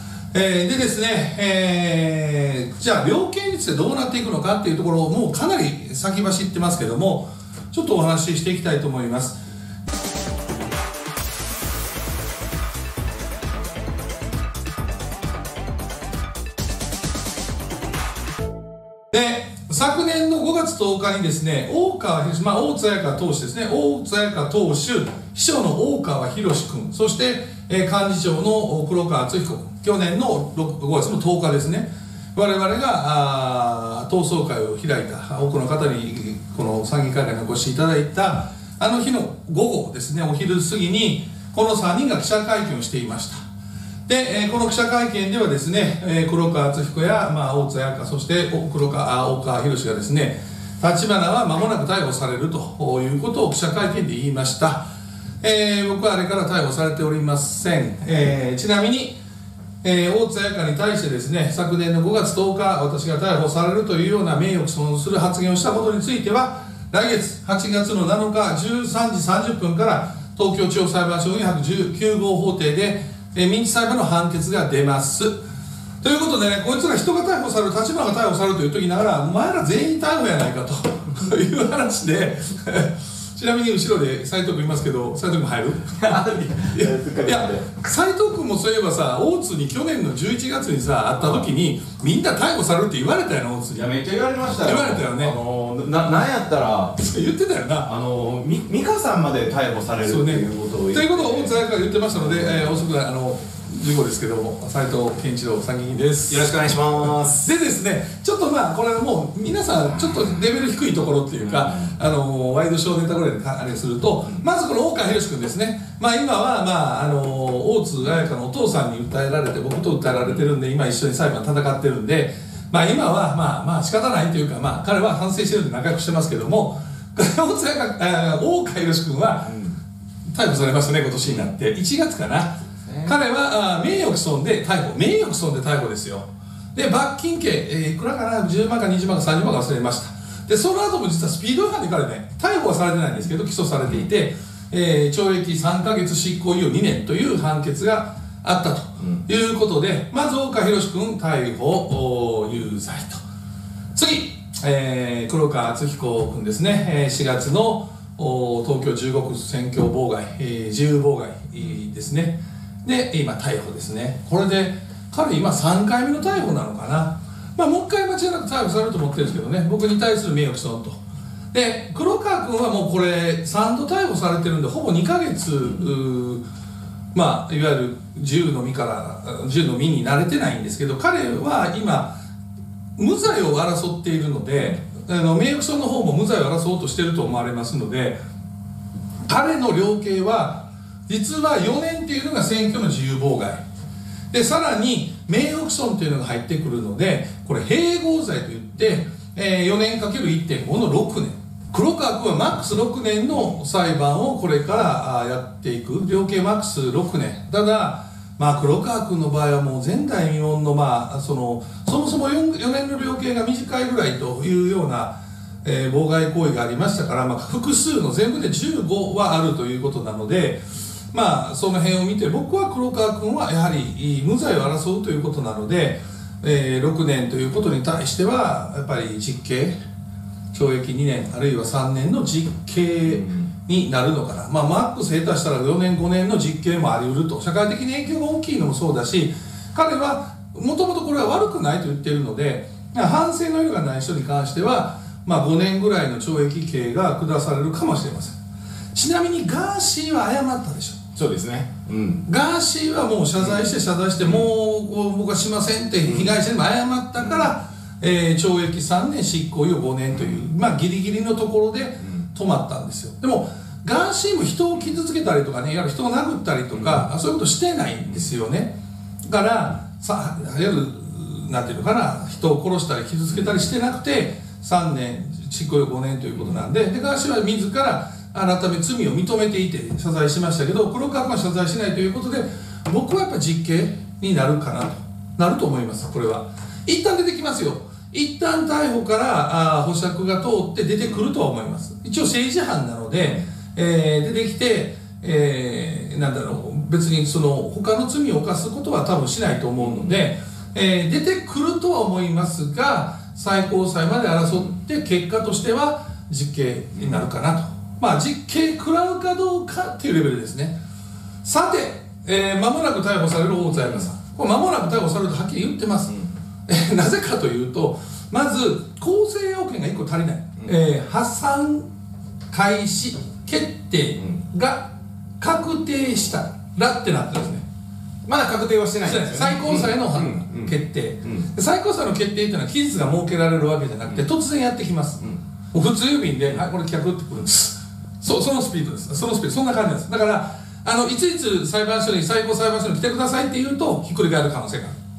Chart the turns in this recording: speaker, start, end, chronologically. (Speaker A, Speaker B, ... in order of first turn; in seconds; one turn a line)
Speaker A: 0.3-9.4
Speaker A: 19.1-43.4
Speaker A: 44.1-54.8
Speaker A: 55.4-59.2
Speaker A: 59.8-75.4
Speaker A: 76.0-95.4
Speaker B: 86.0-87.7
Speaker B: 93.7-97.0
Speaker A: 96.9-97.9
Speaker B: 97.8-102.7
Speaker A: 100.0-106.6
Speaker B: 106.3-107.5
Speaker A: 107.2-129.6
Speaker B: 111.4-111.9
Speaker A: 130.3-153.2
Speaker B: 132.9-133.1
Speaker A: 153.9-171.0
Speaker A: 171.5-176.4
Speaker A: 177.1-182.2
Speaker A: 183.0-188.2
Speaker A: 189.3-193.6
Speaker A: 194.3-229.8
Speaker A: 230.5-248.4
Speaker A: 248.9-251.0
Speaker B: 251.2-252.2
Speaker A: 252.2-268.7
Speaker B: 254.2-254.5
Speaker B: 256.0-256.3
Speaker A: 269.2-310.8
Speaker A: 311.4-321.9
Speaker A: 322.5-327.6
Speaker B: 328.2-331.5
Speaker A: 329.0-344.9